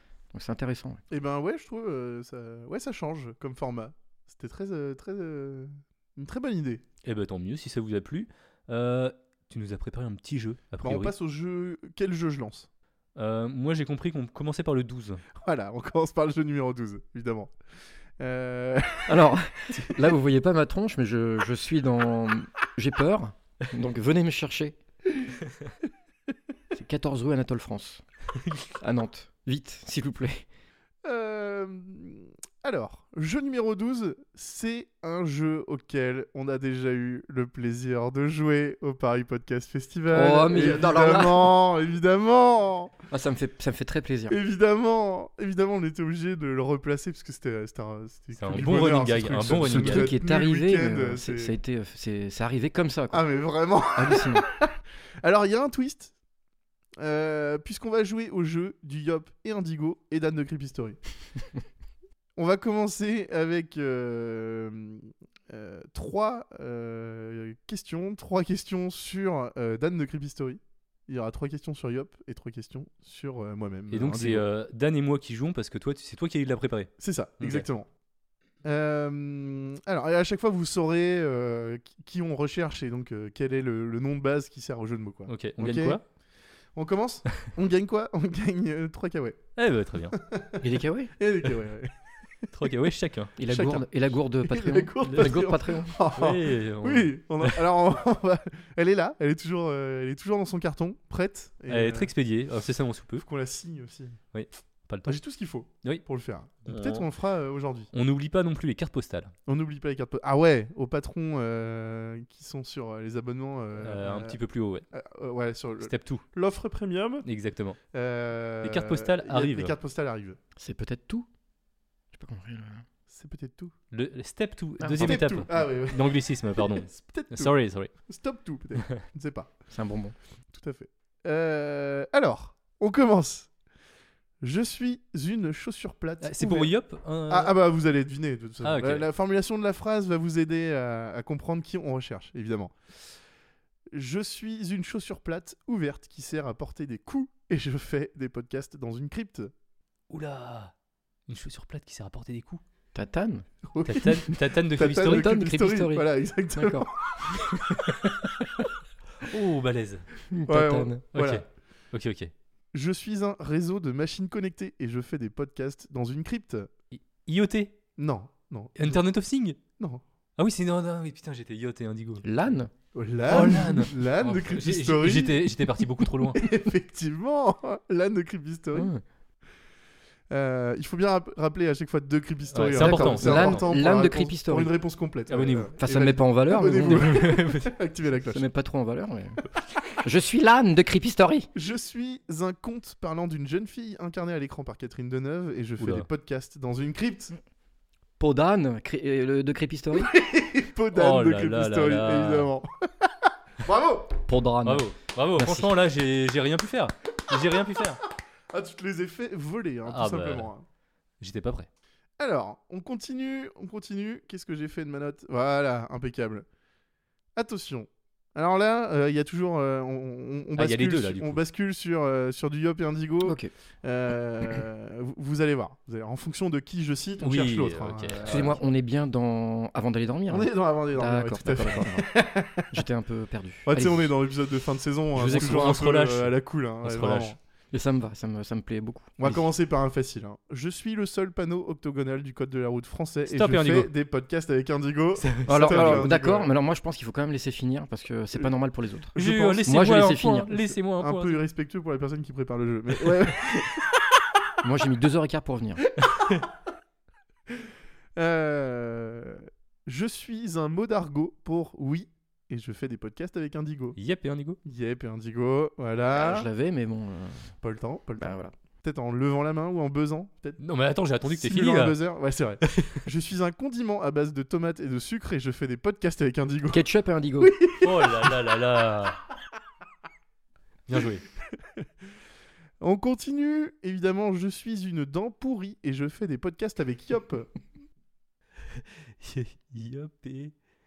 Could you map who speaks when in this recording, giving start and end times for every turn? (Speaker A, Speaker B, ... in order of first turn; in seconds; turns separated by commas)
Speaker A: 0.3-1.0, Speaker B: 1.1-6.8, Speaker C: 7.0-11.1, Speaker B: 10.8-12.7, Speaker C: 13.2-15.2, Speaker B: 15.4-17.5, Speaker B: 18.2-19.3, Speaker A: 19.1-24.8, Speaker A: 26.7-28.0, Speaker A: 28.8-30.4, Speaker B: 31.0-43.0, Speaker A: 40.1-41.6, Speaker A: 43.1-44.4, Speaker B: 44.3-51.5, Speaker C: 48.3-50.1, Speaker A: 49.7-53.2, Speaker B: 53.1-54.7, Speaker A: 54.0-54.4, Speaker B: 55.2-56.1, Speaker B: 57.0-61.0, Speaker B: 62.4-74.4, Speaker C: 73.9-77.7, Speaker B: 77.0-77.9, Speaker B: 78.6-86.0, Speaker C: 85.3-86.0, Speaker B: 86.8-89.4, Speaker C: 89.6-90.2, Speaker B: 90.1-90.6, Speaker A: 90.6-91.1, Speaker B: 91.2-91.9, Speaker C: 92.5-93.3, Speaker A: 93.4-96.0, Speaker B: 93.5-93.8, Speaker B: 94.4-102.1, Speaker C: 95.1-95.3, Speaker C: 96.2-97.6, Speaker C: 101.7-103.2, Speaker B: 103.2-104.2, Speaker C: 104.3-105.2, Speaker B: 105.0-107.9, Speaker C: 106.7-107.0, Speaker C: 107.9-109.3, Speaker B: 109.5-114.4, Speaker C: 113.8-114.8, Speaker B: 114.9-117.2, Speaker C: 115.8-116.2, Speaker C: 117.2-117.8, Speaker B: 117.9-120.4, Speaker C: 118.6-119.7, Speaker A: 120.6-121.3, Speaker A: 122.1-122.8, Speaker B: 123.1-123.7, Speaker C: 123.9-127.9, Speaker A: 124.8-125.3, Speaker B: 125.0-129.5, Speaker A: 129.7-130.1, Speaker B: 130.5-133.5, Speaker B: 134.4-136.7, Speaker C: 136.2-137.5, Speaker B: 137.3-142.7, Speaker C: 138.6-139.1, Speaker B: 143.9-149.5, Speaker C: 150.1-150.7, Speaker C: 151.3-152.6, Speaker A: 152.9-153.4, Speaker B: 153.7-157.8, Speaker C: 153.8-155.5, Speaker A: 155.0-158.1, Speaker C: 159.2-160.1, Speaker A: 160.3-161.0, Speaker B: 160.5-161.4, Speaker C: 161.1-162.3, Speaker B: 162.7-166.7, Speaker C: 166.9-167.8, Speaker B: 168.0-169.0, Speaker C: 168.8-169.6, Speaker C: 170.4-172.2, Speaker A: 172.2-172.7, Speaker B: 172.9-178.9, Speaker C: 173.3-176.4, Speaker A: 178.7-179.0, Speaker B: 180.3-188.4, Speaker C: 182.5-183.7, Speaker A: 182.8-184.7, Speaker C: 185.3-185.7, Speaker A: 185.8-187.1, Speaker C: 186.8-187.7, Speaker A: 188.3-189.4, Speaker A: 190.0-191.5, Speaker B: 191.5-197.3, Speaker C: 195.8-196.1, Speaker A: 198.2-200.1, Speaker B: 199.9-204.2, Speaker C: 200.9-202.5, Speaker A: 204.3-204.8, Speaker C: 204.6-208.0, Speaker A: 205.4-205.7, Speaker B: 208.5-210.6, Speaker C: 209.8-210.5, Speaker C: 211.2-211.7, Speaker B: 212.2-216.4, Speaker B: 217.3-228.6, Speaker C: 220.5-221.4, Speaker A: 223.2-223.5, Speaker C: 227.2-228.5, Speaker A: 228.3-232.1, Speaker B: 230.3-232.7, Speaker A: 232.7-234.1, Speaker B: 233.7-237.4, Speaker A: 235.1-235.7, Speaker C: 235.2-237.4, Speaker A: 237.7-239.4, Speaker B: 239.2-246.5, Speaker C: 243.2-243.9, Speaker C: 245.2-246.1, Speaker A: 245.5-249.1, Speaker B: 249.1-249.7, Speaker C: 249.2-251.4, Speaker A: 249.7-250.5, Speaker B: 250.6-253.8, Speaker A: 254.6-255.8, Speaker B: 258.1-264.0, Speaker C: 264.0-264.6, Speaker B: 264.6-266.5, Speaker A: 266.1-267.5, Speaker B: 267.6-270.6, Speaker A: 268.2-268.5, Speaker C: 270.6-272.0, Speaker B: 271.2-276.8, Speaker C: 272.6-273.0, Speaker A: 276.7-277.5, Speaker B: 277.4-278.3, Speaker C: 277.8-279.2, Speaker C: 280.9-281.2, Speaker B: 282.8-287.5, Speaker C: 288.7-290.5